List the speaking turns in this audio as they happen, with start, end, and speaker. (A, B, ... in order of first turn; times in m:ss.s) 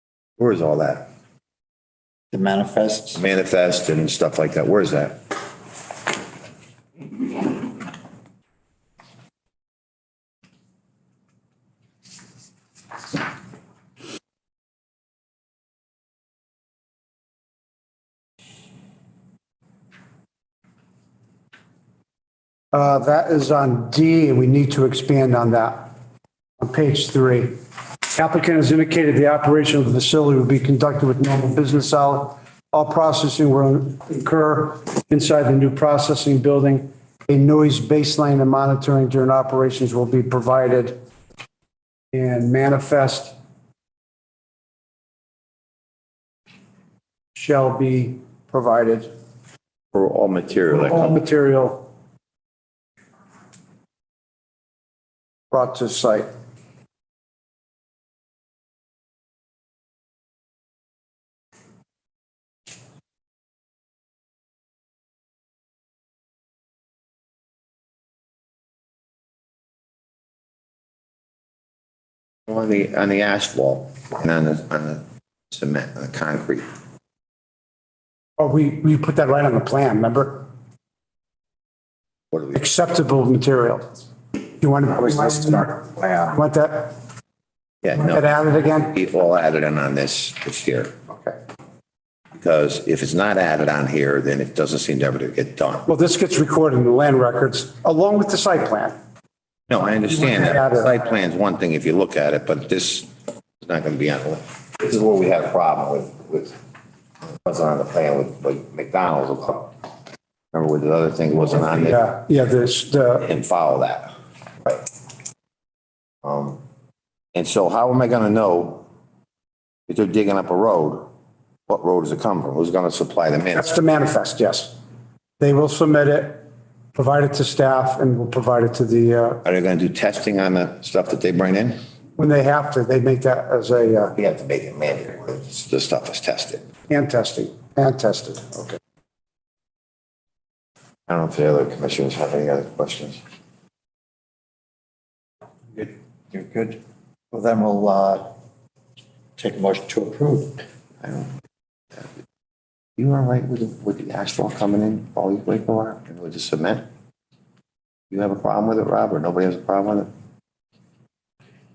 0:00.4-0:01.0 A
0:02.3-0:03.2 B
0:03.1-0:05.2 A
0:22.7-0:25.9 C
0:26.6-0:27.5 C
0:28.1-0:41.0 C
0:42.1-0:43.3 C
0:47.3-0:49.1 C
0:49.9-0:51.2 A
0:50.7-0:51.8 C
0:55.5-0:56.3 C
1:12.5-1:16.6 A
1:18.4-1:20.4 C
1:22.3-1:22.6 A
1:22.5-1:24.0 C
1:24.6-1:26.9 C
1:25.1-1:26.4 B
1:27.8-1:30.9 A
1:27.9-1:29.0 C
1:31.1-1:31.4 C
1:32.4-1:35.8 A
1:35.8-1:38.9 C
1:39.7-1:43.1 A
1:40.0-1:41.2 C
1:43.6-1:46.5 A
1:47.4-1:49.7 A
1:50.5-1:52.0 A
1:51.5-1:53.3 C
1:53.2-1:54.1 A
1:56.2-1:56.6 A
1:57.3-1:58.8 A
1:59.9-2:01.0 A
2:01.7-2:03.7 A
2:03.5-2:04.7 C
2:05.4-2:06.4 C
2:06.9-2:09.4 C
2:09.4-2:11.8 A
2:12.2-2:14.1 C
2:14.2-2:16.6 A
2:16.9-2:18.8 C
2:21.1-2:23.2 A
2:25.8-2:26.8 B
2:27.3-2:28.3 B
2:29.4-2:30.5 B
2:31.0-2:31.3 A
2:33.0-2:36.8 A
2:38.1-2:40.1 A